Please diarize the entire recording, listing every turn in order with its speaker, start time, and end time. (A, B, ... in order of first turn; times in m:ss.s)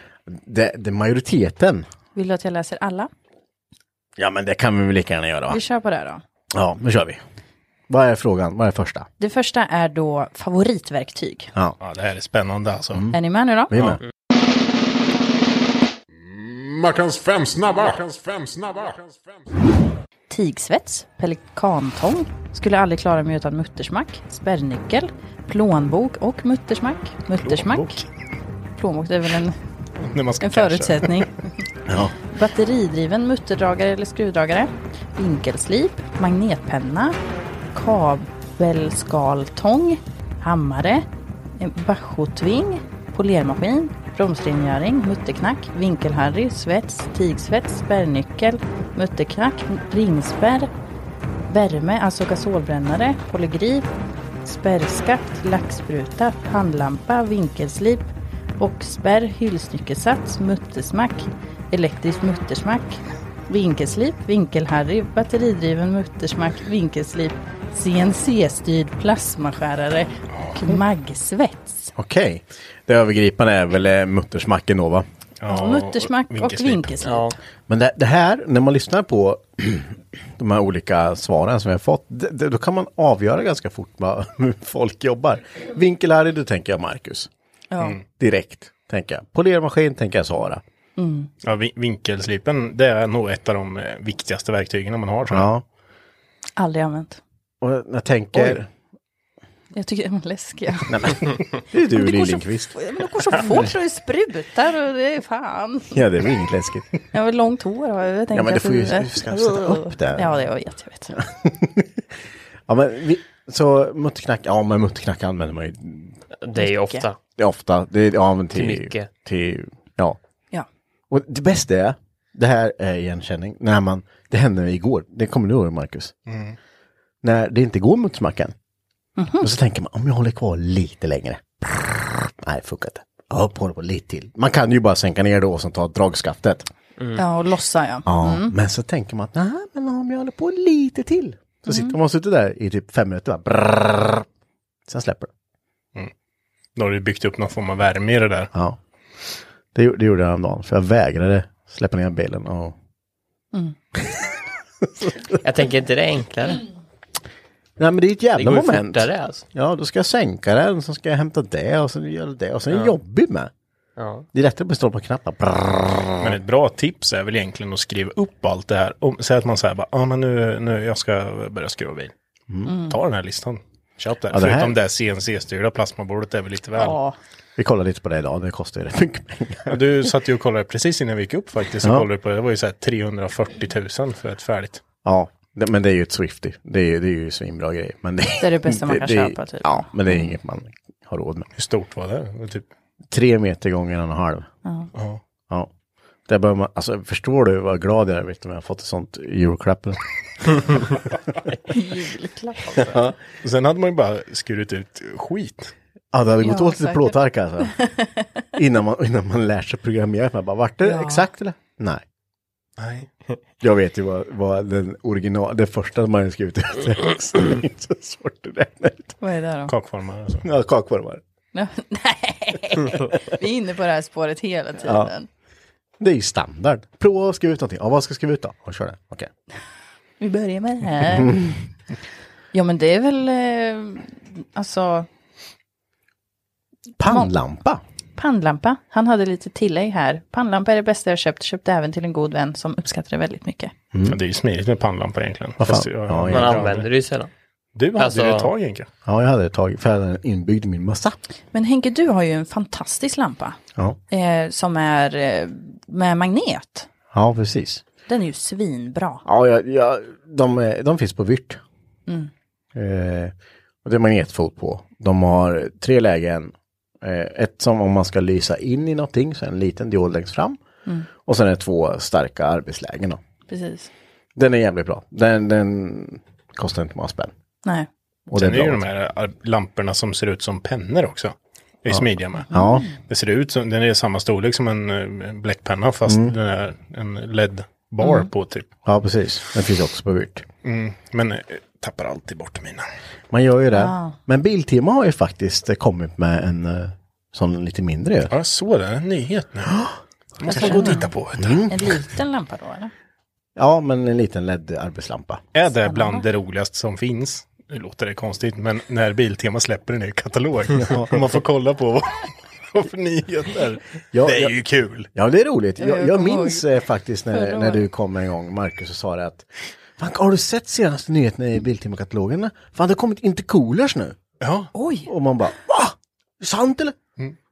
0:00.3-0:01.9 A
0:02.2-0:03.1 B
0:04.2-0:05.6 A
0:05.5-0:06.2 B
0:06.5-0:07.2 A
0:07.9-0:09.1 A
0:09.2-0:11.5 B
0:11.8-0:13.1 C
0:13.1-0:13.8 B
0:13.7-0:14.0 A
0:13.7-0:14.0 C
0:16.2-0:19.5 D
0:20.3-0:28.0 B
0:27.4-0:28.1 C
0:28.8-0:29.6 B
0:30.0-0:31.3 C
0:30.4-0:31.5 B
0:31.9-0:32.1 A
0:32.3-0:37.2 B
0:37.7-0:41.1 B
0:41.6-0:50.7 B
0:51.5-0:53.9 B
0:54.4-1:11.9 B
1:10.3-1:10.8 C
1:12.0-1:15.1 A
1:15.4-1:17.1 C
1:15.5-1:17.3 B
1:17.0-1:17.4 E
1:17.7-1:27.3 A
1:27.7-1:28.0 B
1:28.2-1:30.6 A
1:31.0-1:31.3 B
1:31.4-1:35.5 C
1:35.3-1:35.6 A
1:36.6-1:37.2 B
1:37.6-1:38.7 A
1:39.7-1:41.0 B
1:40.9-1:42.8 A
1:41.9-1:46.0 B
1:43.3-1:43.7 A
1:45.9-1:46.9 A
1:47.1-1:51.2 B
1:48.3-1:50.4 A
1:51.2-1:52.0 A
1:52.7-1:56.2 A
1:56.4-1:57.2 E
1:56.6-1:57.0 B
1:57.4-2:00.2 A
1:58.6-1:59.1 E
2:01.1-2:06.2 A
2:06.3-2:06.6 C
2:07.2-2:08.6 A
2:09.2-2:09.5 B
2:09.4-2:16.7 A
2:17.2-2:18.5 B
2:18.1-2:24.3 A
2:21.7-2:22.0 B
2:24.9-2:25.3 A
2:26.8-2:28.5 C
2:29.7-2:32.8 A
2:34.9-2:35.4 A
2:35.4-2:36.6 E
2:37.8-2:43.5 A
2:38.4-2:39.4 E
2:44.0-2:44.3 E
2:44.3-2:46.4 A
2:46.2-2:52.1 C
2:52.7-2:53.0 B
2:52.8-2:57.0 C
2:54.3-2:54.8 A
2:56.8-2:57.2 B
2:57.6-3:00.1 A
2:59.7-3:04.8 C
3:01.8-3:02.1 A
3:05.0-3:11.5 A
3:08.4-3:10.2 B
3:11.6-3:12.7 C
3:13.1-3:14.5 A
3:15.0-3:15.2 C
3:16.3-3:20.8 A
3:21.7-3:22.9 B
3:22.8-3:23.2 A
3:23.4-3:25.7 C
3:26.1-3:27.8 A
3:26.4-3:28.2 B
3:28.6-3:32.0 A
3:30.8-3:31.3 B
3:32.8-3:33.1 C
3:33.6-3:39.2 A
3:39.2-3:39.7 B
3:39.7-3:40.5 C
3:40.4-3:41.2 A
3:41.5-3:45.3 B
3:44.8-3:45.1 A
3:46.0-3:49.3 A
3:50.2-3:51.4 B
3:51.1-3:51.6 A
3:52.5-3:55.1 B
3:57.0-3:57.8 A
3:57.1-3:57.3 B
3:58.2-4:03.7 B
4:03.9-4:04.2 A
4:04.0-4:06.9 C
4:05.6-4:06.6 A
4:06.3-4:07.3 E
4:07.8-4:08.9 C
4:08.0-4:08.5 E
4:09.0-4:11.2 A
4:11.5-4:13.6 B
4:14.1-4:16.9 B
4:17.1-4:17.8 A
4:18.1-4:19.2 B
4:19.2-4:21.6 A
4:22.8-4:30.6 A
4:31.2-4:33.2 A
4:33.5-4:33.9 B
4:34.4-4:37.3 A
4:38.3-4:38.8 A
4:38.3-4:48.7 C
4:41.9-4:42.9 A
4:42.5-4:42.9 B
4:46.1-4:46.3 A
4:48.0-4:48.3 B
4:48.8-4:50.5 A
4:50.6-4:52.9 C
4:53.3-4:58.3 A
4:53.7-4:54.2 B
4:58.3-4:59.8 C
4:59.7-5:01.9 A
5:00.4-5:01.7 C
5:00.5-5:01.1 B
5:01.7-5:02.9 B
5:03.6-5:05.4 A
5:05.5-5:15.1 C
5:05.8-5:06.3 B
5:10.8-5:11.3 A
5:14.1-5:14.6 A
5:15.2-5:24.2 A
5:15.8-5:16.7 B
5:17.3-5:17.8 B
5:24.4-5:24.7 C
5:24.7-5:25.1 B
5:25.1-5:27.0 A